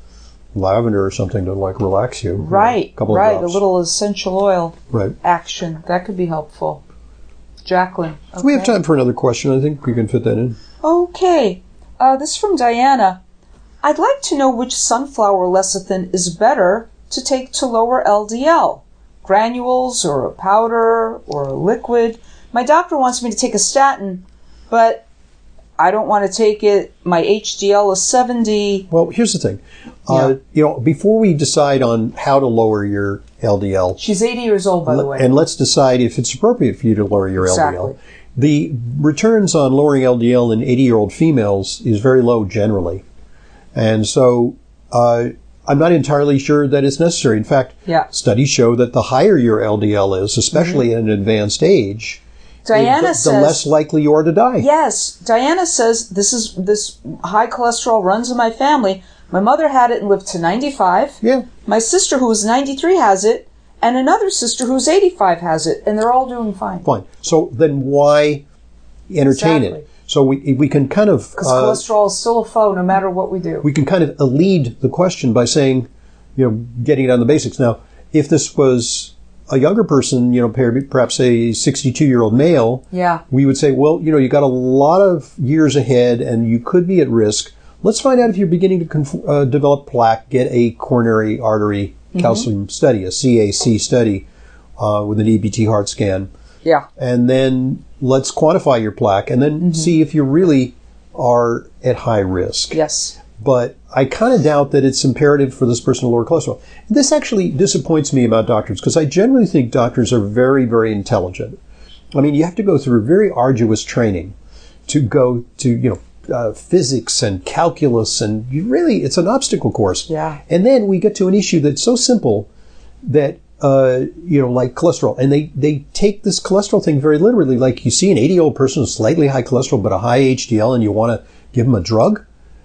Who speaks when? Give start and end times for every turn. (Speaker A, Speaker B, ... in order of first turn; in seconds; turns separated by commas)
Speaker A: 0.5-3.6, Speaker B: 2.4-6.8, Speaker B: 7.6-8.8, Speaker A: 8.4-10.6, Speaker B: 10.8-13.2, Speaker B: 13.8-25.1, Speaker B: 25.8-28.9, Speaker A: 28.9-34.0, Speaker B: 30.1-30.4, Speaker B: 34.0-35.3, Speaker A: 34.9-43.0, Speaker B: 37.4-38.0, Speaker A: 43.7-54.7, Speaker B: 50.5-50.8, Speaker B: 52.6-53.6, Speaker B: 54.6-66.9, Speaker A: 61.2-61.5, Speaker A: 66.8-68.4, Speaker A: 69.1-71.8, Speaker B: 69.3-69.9, Speaker B: 71.4-73.7, Speaker A: 73.6-94.3, Speaker B: 82.9-83.2, Speaker B: 92.1-92.5, Speaker A: 94.8-96.3, Speaker A: 97.0-111.6, Speaker B: 99.6-99.9, Speaker B: 102.7-103.1, Speaker A: 112.1-114.3, Speaker A: 114.9-122.5, Speaker B: 120.1-120.4, Speaker A: 123.0-132.2